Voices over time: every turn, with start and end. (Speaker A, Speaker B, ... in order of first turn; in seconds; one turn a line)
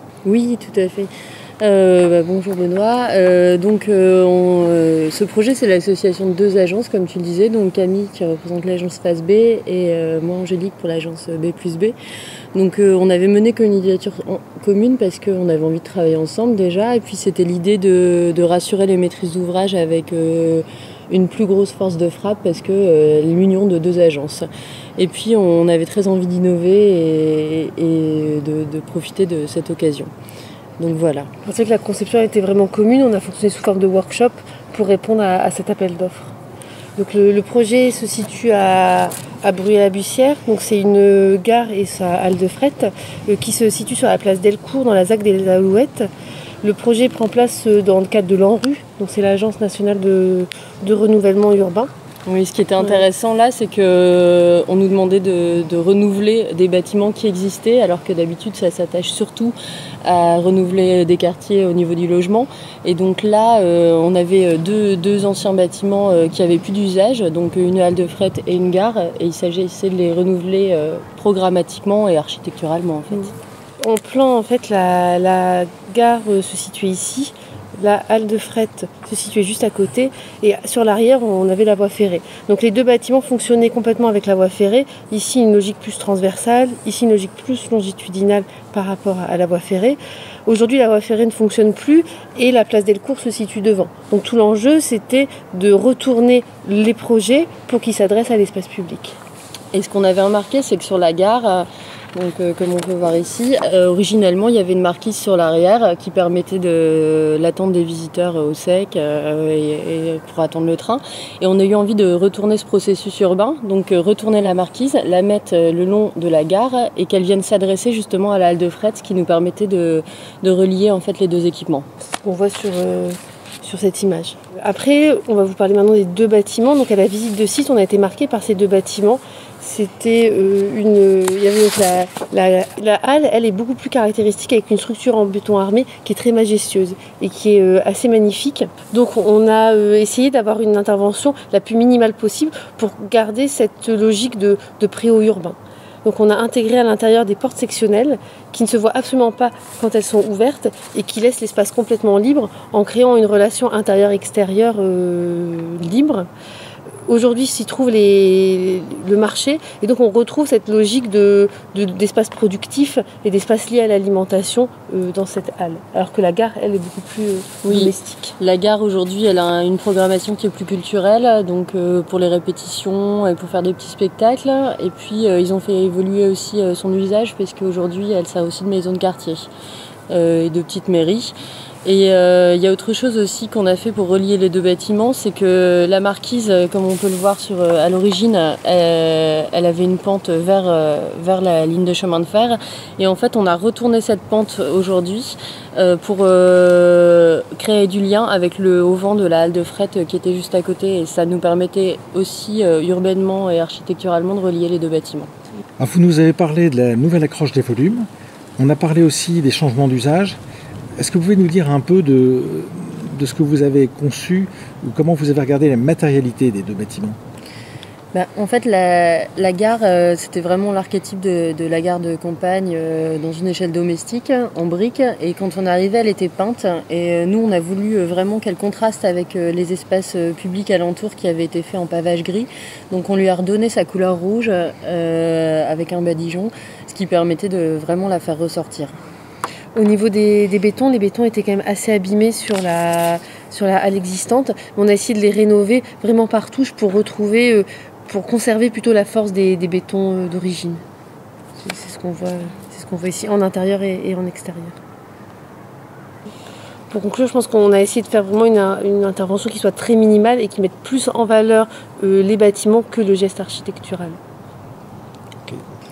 Speaker A: 0.2-12.0
Speaker A: 12.5-30.1
Speaker A: 30.8-31.3
Speaker B: 31.4-36.4
Speaker B: 37.0-46.1
Speaker B: 46.6-51.9
Speaker A: 52.3-73.3
Speaker B: 52.8-53.0
Speaker B: 73.8-99.2
Speaker A: 99.7-121.9
Speaker B: 122.2-156.3
Speaker B: 157.1-168.4
Speaker A: 167.7-179.5
Speaker A: 180.1-205.3
Speaker C: 205.8-210.4
Speaker C: 211.0-217.2
Speaker A: 218.1-238.9
Speaker B: 239.8-250.8
Speaker B: 251.6-254.8
Speaker B: 256.9-264.2